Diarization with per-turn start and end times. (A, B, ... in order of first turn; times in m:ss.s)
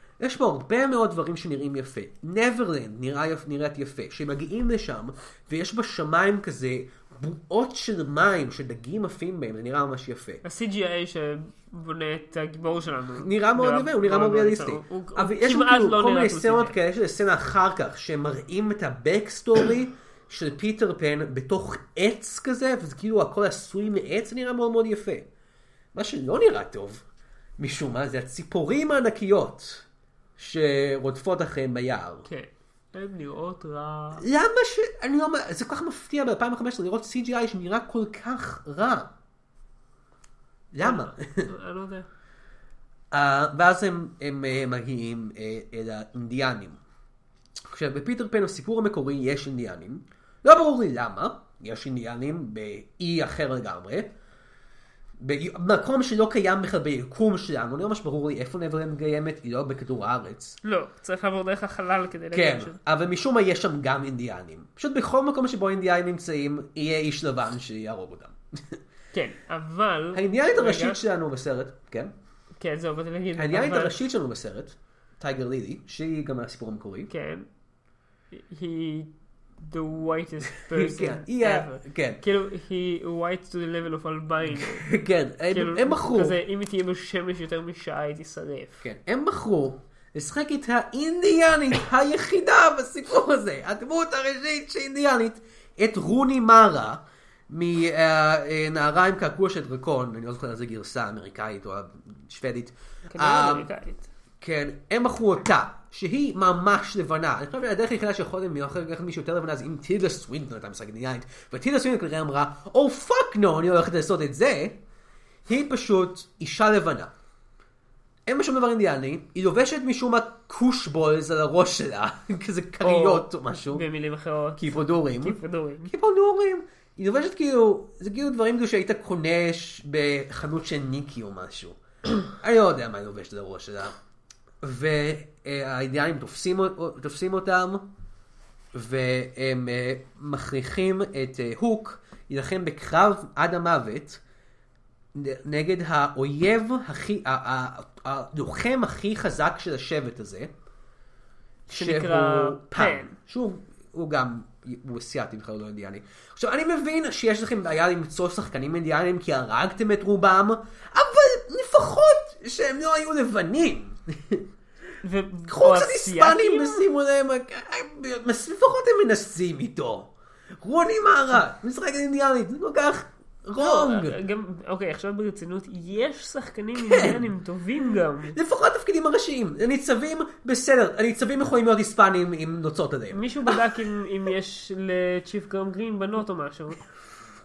0:00.2-0:10.4 A
0:10.4-0:16.8 B
0:13.2-0:25.3 A
0:25.9-0:27.0 A
0:27.6-0:29.8 A
0:30.4-0:32.3 A
0:32.2-0:34.2 B
0:34.2-0:39.1 A
0:40.7-0:41.5 A
0:40.8-0:42.1 B
0:43.1-0:46.8 A
0:47.7-0:54.1 A
0:55.2-1:00.6 A
1:00.6-1:02.8 B
1:02.3-1:08.8 A
1:09.1-1:11.0 B
1:10.1-1:12.1 A
1:12.6-1:14.0 B
1:13.4-1:17.1 A
1:17.1-1:17.5 B
1:18.3-1:24.8 B
1:20.6-1:22.2 A
1:24.6-1:26.4 A
1:25.5-1:28.8 B
1:28.8-1:43.7 A
1:43.1-1:44.1 B
1:44.4-1:54.8 A
1:55.5-1:57.1 A
1:58.3-2:03.8 A
2:02.8-2:05.9 B
2:04.6-2:13.9 A
2:14.6-2:17.8 A
2:18.7-2:24.2 A
2:25.1-2:30.5 A
2:31.7-2:44.4 A
2:31.7-2:33.1 B
2:45.0-2:46.8 B
2:45.5-2:54.2 A
2:53.6-2:58.4 B
2:56.8-2:57.3 A
2:58.3-3:03.3 A
3:03.1-3:06.8 B